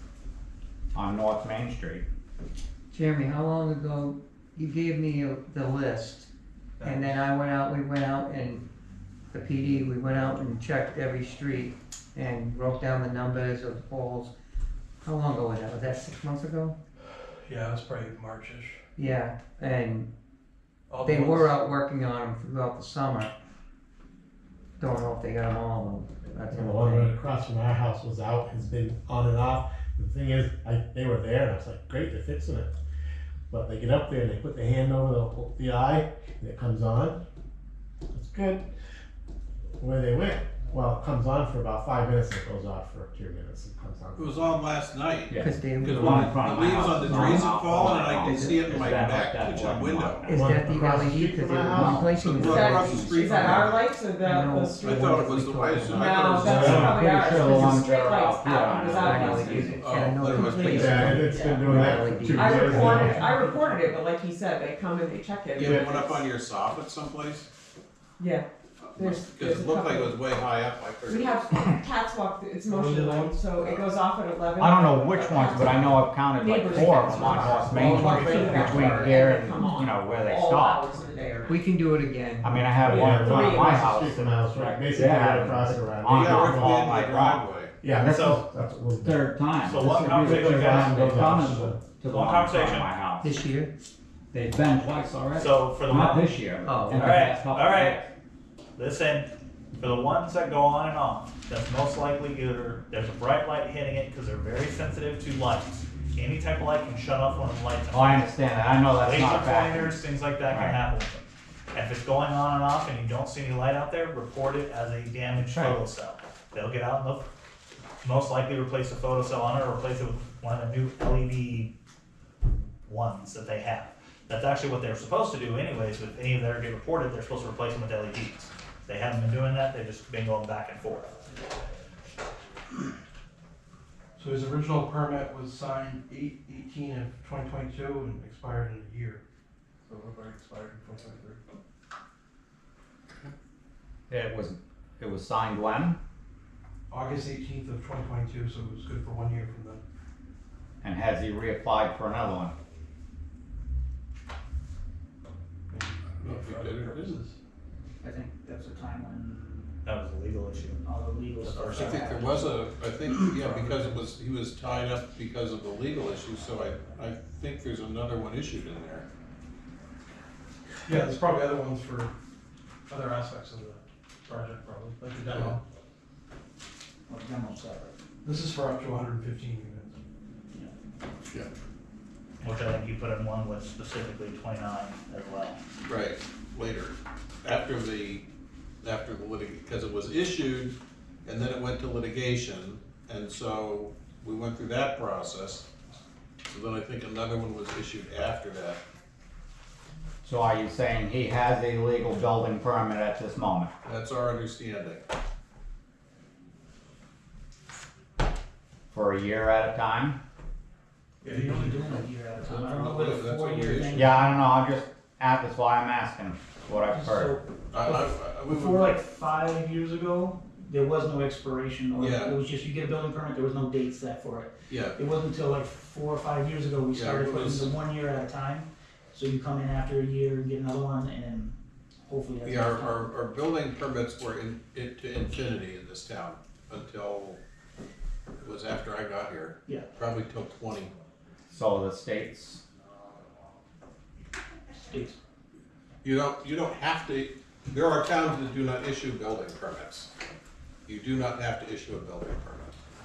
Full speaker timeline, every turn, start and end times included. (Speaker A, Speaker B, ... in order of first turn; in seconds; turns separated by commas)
Speaker A: 0.9-2.0, Speaker B: 2.9-6.3, Speaker B: 6.8-8.6, Speaker B: 9.3-14.3, Speaker B: 15.0-16.8, Speaker C: 17.4-18.8, Speaker B: 19.0-20.1, Speaker C: 20.9-21.5, Speaker B: 21.0-23.3, Speaker B: 24.8-27.2, Speaker D: 26.5-32.7, Speaker D: 33.5-37.2, Speaker D: 38.1-38.6, Speaker D: 39.8-44.6, Speaker E: 44.2-50.3, Speaker A: 45.3-50.3, Speaker B: 45.4-47.5, Speaker B: 48.2-48.6, Speaker B: 50.2-53.5, Speaker D: 50.3-52.2, Speaker E: 52.2-53.9, Speaker F: 52.5-55.2, Speaker B: 54.2-57.7, Speaker E: 54.8-56.6, Speaker F: 56.0-66.2, Speaker D: 56.4-56.9, Speaker A: 56.5-59.7, Speaker B: 58.3-63.4, Speaker E: 59.1-61.1, Speaker D: 60.6-63.3, Speaker C: 63.3-64.0, Speaker E: 65.6-67.5, Speaker F: 68.2-70.3, Speaker E: 68.8-71.5, Speaker F: 71.1-81.6, Speaker C: 72.7-73.8, Speaker A: 74.6-80.9, Speaker C: 77.5-79.1, Speaker B: 81.5-83.2, Speaker A: 82.4-88.5, Speaker D: 82.7-86.9, Speaker F: 82.9-84.0, Speaker E: 86.1-87.8, Speaker D: 87.8-89.3, Speaker G: 88.1-88.3, Speaker A: 89.0-93.3, Speaker G: 89.7-91.2, Speaker D: 89.9-91.8, Speaker G: 92.1-92.9, Speaker B: 93.2-93.7, Speaker A: 94.3-98.1, Speaker G: 95.3-98.0, Speaker B: 96.6-97.1, Speaker G: 98.8-108.3, Speaker A: 107.9-109.9, Speaker G: 109.0-117.3, Speaker A: 110.5-110.8, Speaker A: 115.5-115.8, Speaker G: 118.0-121.7, Speaker G: 122.9-131.1, Speaker C: 134.2-139.2, Speaker C: 139.9-141.4, Speaker A: 144.1-146.0, Speaker C: 146.9-149.8, Speaker A: 150.8-152.6, Speaker C: 155.7-157.3, Speaker E: 156.1-157.2, Speaker H: 158.0-159.7, Speaker G: 159.8-160.8, Speaker H: 160.8-162.6, Speaker G: 161.4-162.1, Speaker E: 161.7-169.1, Speaker C: 163.6-163.9, Speaker C: 170.9-172.1, Speaker C: 172.9-175.6, Speaker E: 175.3-175.6, Speaker H: 177.1-177.9, Speaker C: 178.2-180.0, Speaker G: 182.4-185.6, Speaker E: 185.8-188.2, Speaker E: 188.8-195.7, Speaker E: 196.5-198.8, Speaker A: 200.2-203.7, Speaker E: 203.8-205.0, Speaker A: 208.9-210.2, Speaker C: 211.2-212.0, Speaker H: 211.2-214.4, Speaker E: 212.4-214.1, Speaker A: 213.9-217.4, Speaker H: 216.9-231.6, Speaker E: 217.7-219.0, Speaker E: 221.9-222.4, Speaker E: 224.7-225.0, Speaker E: 226.9-227.8, Speaker H: 232.1-233.2, Speaker E: 232.4-237.4, Speaker E: 238.4-240.9, Speaker A: 241.5-242.6, Speaker H: 244.8-245.2, Speaker E: 246.0-250.1, Speaker E: 250.9-252.8